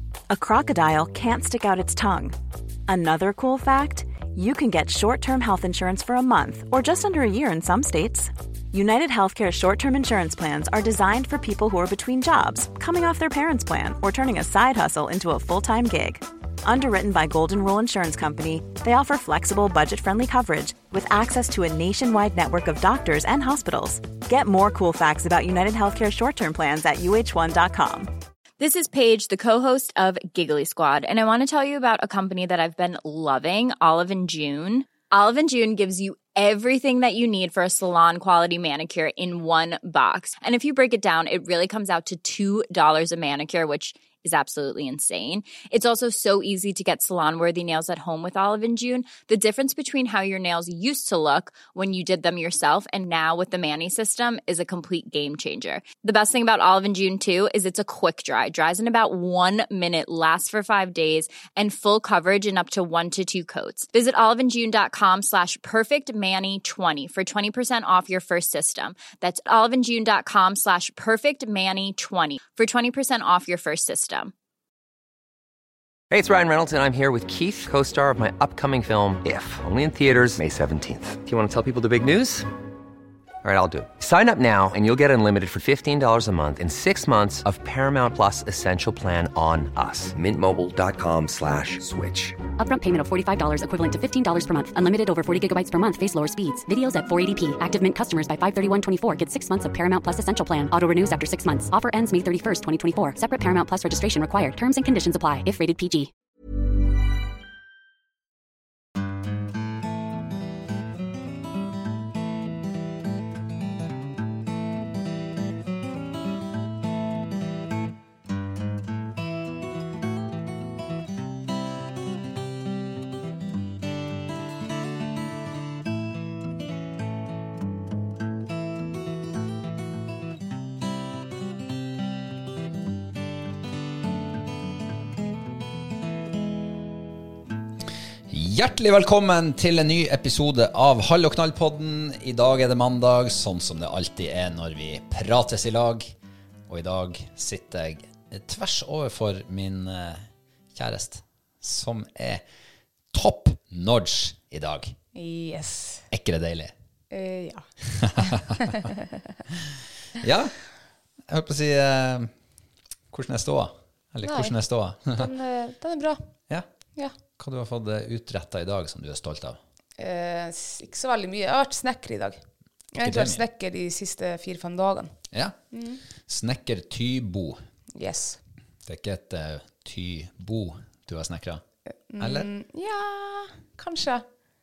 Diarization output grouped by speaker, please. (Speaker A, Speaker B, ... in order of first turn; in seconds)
Speaker A: 0.3-2.4, 2.9-28.1
Speaker B: 28.6-74.3
Speaker C: 76.1-82.5, 83.4-92.4
Speaker D: 92.6-106.1
Speaker E: 138.3-146.1, 146.7-152.4, 153.1-154.9, 156.1-156.7, 158.0-158.8, 159.5-160.6, 161.3-162.3, 163.1-165.3, 167.4-169.6, 173.0-173.4, 175.3-175.6, 176.2-177.6, 178.8-181.6, 182.2-182.5
Speaker F: 155.2-156.1, 157.1-157.7, 158.2-159.1, 164.2-164.6, 165.2-166.2, 170.0-172.4, 172.9-175.1, 175.7-176.0, 177.9-178.4, 182.1-184.2